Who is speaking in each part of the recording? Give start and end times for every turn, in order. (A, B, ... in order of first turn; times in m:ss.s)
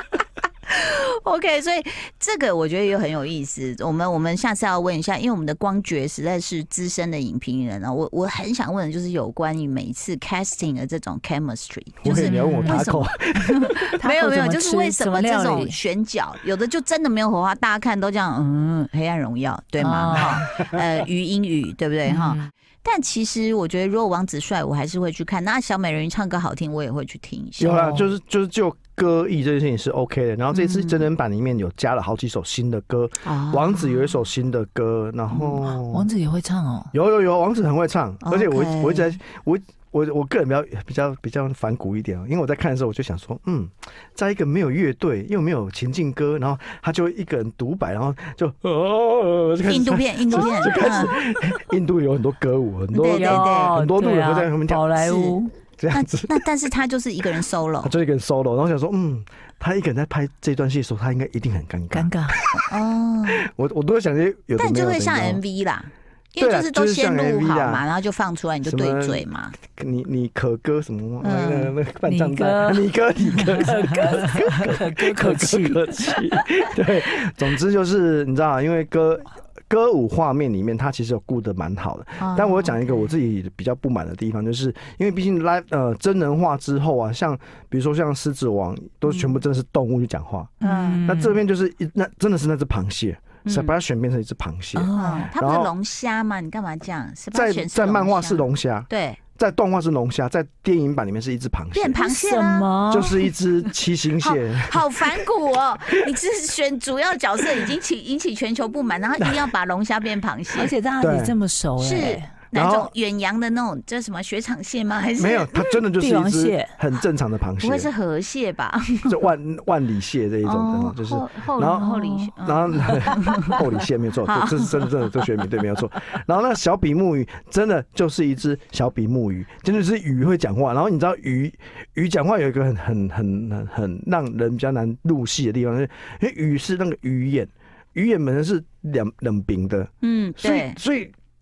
0:00.7-0:27.9 A
0:12.0-0:13.8 B
0:12.0-0:12.8 C
0:14.0-0:15.8 C
0:19.8-0:20.6 C
0:22.0-0:22.5 C
0:27.6-0:36.1 B
0:27.7-0:28.0 C
0:30.5-0:31.0 A
0:33.2-0:34.0 A
0:35.7-0:36.9 C
0:36.9-0:54.9 B
0:38.2-0:39.2 A
0:49.6-0:51.1 A
0:52.9-0:53.7 A
0:53.0-0:55.5 C
0:55.0-0:55.4 A
0:55.8-0:56.4 B
0:55.9-0:57.9 A
0:57.8-1:02.7 B
1:01.9-1:02.4 C
1:02.6-1:03.4 A
1:03.3-1:05.4 B
1:04.6-1:09.6 A
1:06.4-1:07.8 B
1:08.6-1:30.5 B
1:11.2-1:11.7 A
1:12.0-1:12.9 C
1:13.4-1:16.4 C
1:22.2-1:22.9 A
1:29.1-1:29.4 A
1:30.6-1:31.4 C
1:30.6-1:31.1 A
1:31.0-1:35.7 B
1:33.4-1:33.7 A
1:34.7-1:35.3 C
1:34.9-1:39.2 A
1:37.3-1:42.0 B
1:41.7-1:42.7 A
1:42.0-1:43.3 C
1:42.9-1:45.2 B
1:44.2-1:50.7 A
1:49.2-1:49.5 B
1:50.6-1:52.3 C
1:51.0-1:51.4 B
1:51.8-1:55.8 A
1:52.5-1:52.9 B
1:55.2-1:57.9 B
1:56.0-1:56.7 C
1:57.6-1:59.2 A
1:59.1-2:21.1 B
2:00.4-2:03.6 A
2:01.8-2:02.2 C
2:04.2-2:04.9 A
2:20.0-2:20.8 A